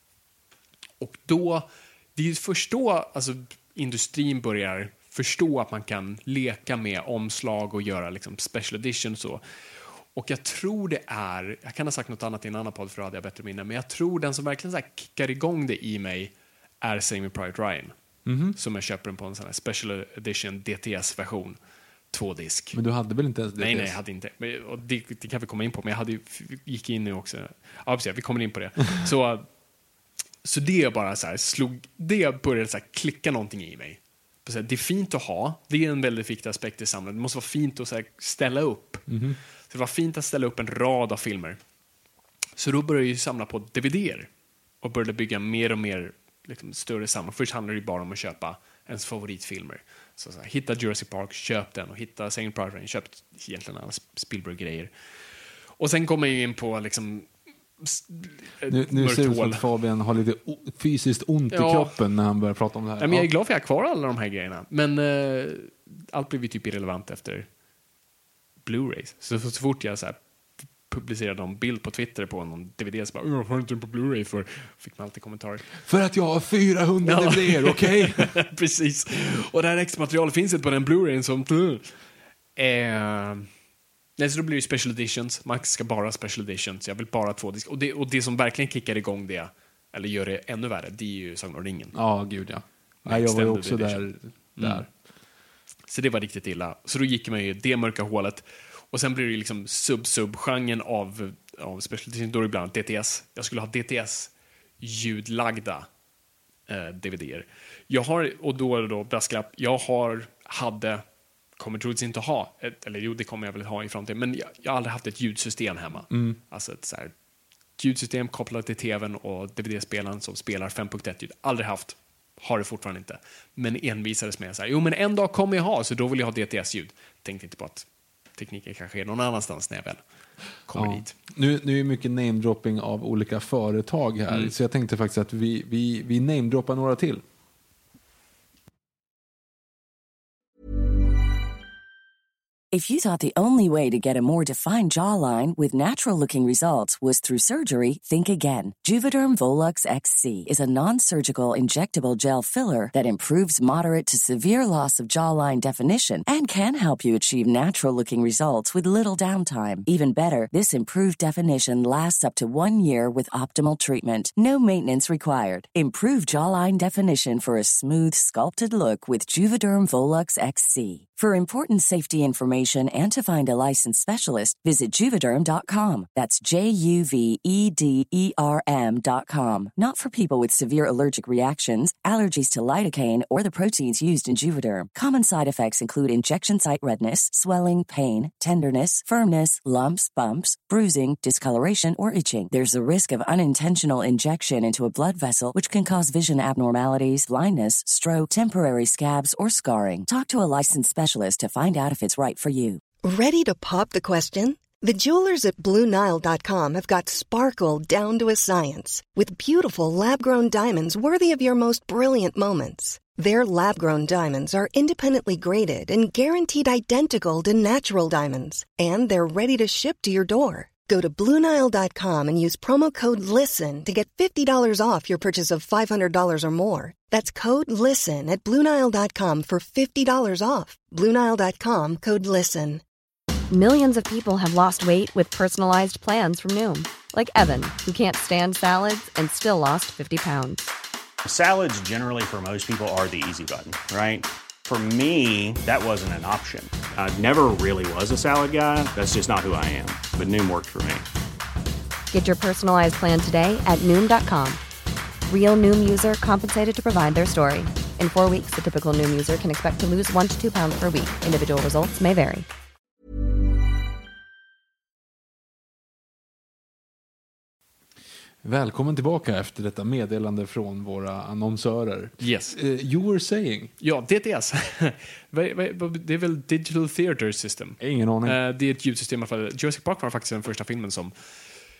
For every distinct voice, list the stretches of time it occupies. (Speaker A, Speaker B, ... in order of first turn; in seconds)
Speaker A: 1.0-9.4, 10.1-17.9, 18.5-21.6, 22.1-22.8, 23.6-29.5, 30.4-39.1, 39.7-41.6, 42.6-44.3, 44.8-54.9, 55.8-59.6, 61.5-62.0, 63.0-67.5, 68.6-70.2, 70.8-75.7, 77.0-81.9, 82.5-83.5, 84.2-92.0, 93.0-94.8, 95.9-105.9, 106.7-111.0, 111.6-117.1, 117.8-130.0, 130.7-131.1, 272.2-272.6, 273.8-281.1
Speaker B: 18.2-18.6, 22.7-24.0, 39.1-39.4, 58.7-63.3, 75.8-78.3, 91.9-94.9, 116.1-116.4, 130.7-137.2, 268.4-273.7, 277.8-278.4
Speaker C: 142.7-202.8
Speaker D: 203.0-232.8
Speaker E: 233.5-240.6, 252.1-254.6, 255.3-262.4
Speaker F: 241.2-251.0